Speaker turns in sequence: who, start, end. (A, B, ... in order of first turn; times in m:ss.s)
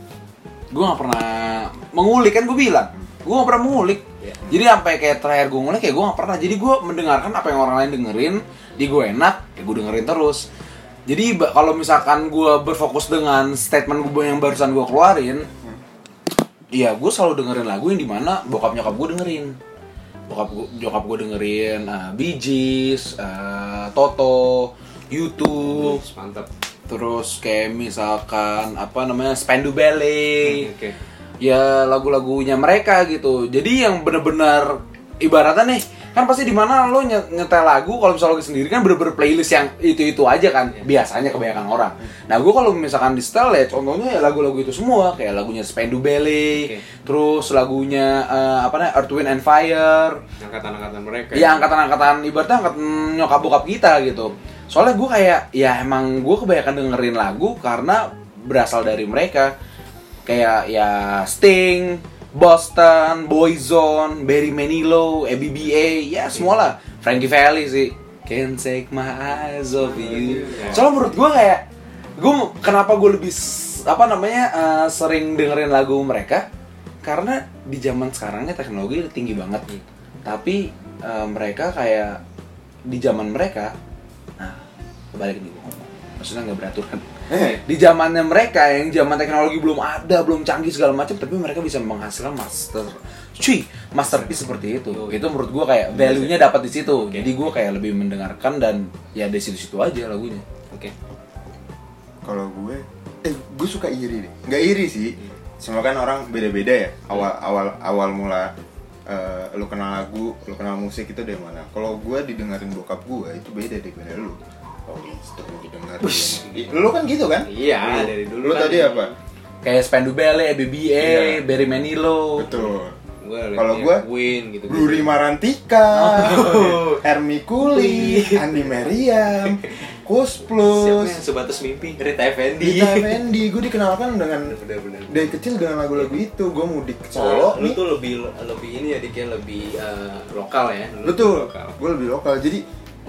0:00.7-0:10.4 A
0:11.1-0:15.5 A
0:16.7-0:19.6 A
0:20.3-0:26.0 A
0:25.6-0:26.5 B
0:26.9-0:30.7 A
0:30.4-0:31.0 B
0:31.4-0:50.2 A
0:50.4-0:51.7 B
0:51.3-0:59.5 A
1:00.2-1:11.6 A
1:09.8-1:11.2 B
1:10.5-1:10.8 C
1:12.2-1:16.4 A
1:17.0-1:19.6 A
1:20.2-1:22.2 A
1:22.9-1:23.7 A
1:25.1-1:40.4 A
1:27.3-1:27.6 C
1:34.9-1:35.2 B
1:36.0-1:36.3 C
1:37.0-1:37.3 B
1:42.2-1:48.5 C
1:49.1-1:59.1 C
1:56.0-1:56.8 B
1:57.4-1:59.2 B
1:59.6-2:02.5 A
2:01.0-2:01.4 C
2:02.4-2:02.9 C
2:02.4-2:05.1 B
2:03.6-2:04.0 C
2:04.7-2:11.2 C
2:06.0-2:07.0 B
2:06.2-2:06.6 A
2:07.6-2:09.8 B
2:10.6-2:13.2 B
2:12.6-2:14.5 C
2:14.5-2:15.3 B
2:15.1-2:17.8 C
2:17.2-2:21.7 B
2:21.0-2:22.6 C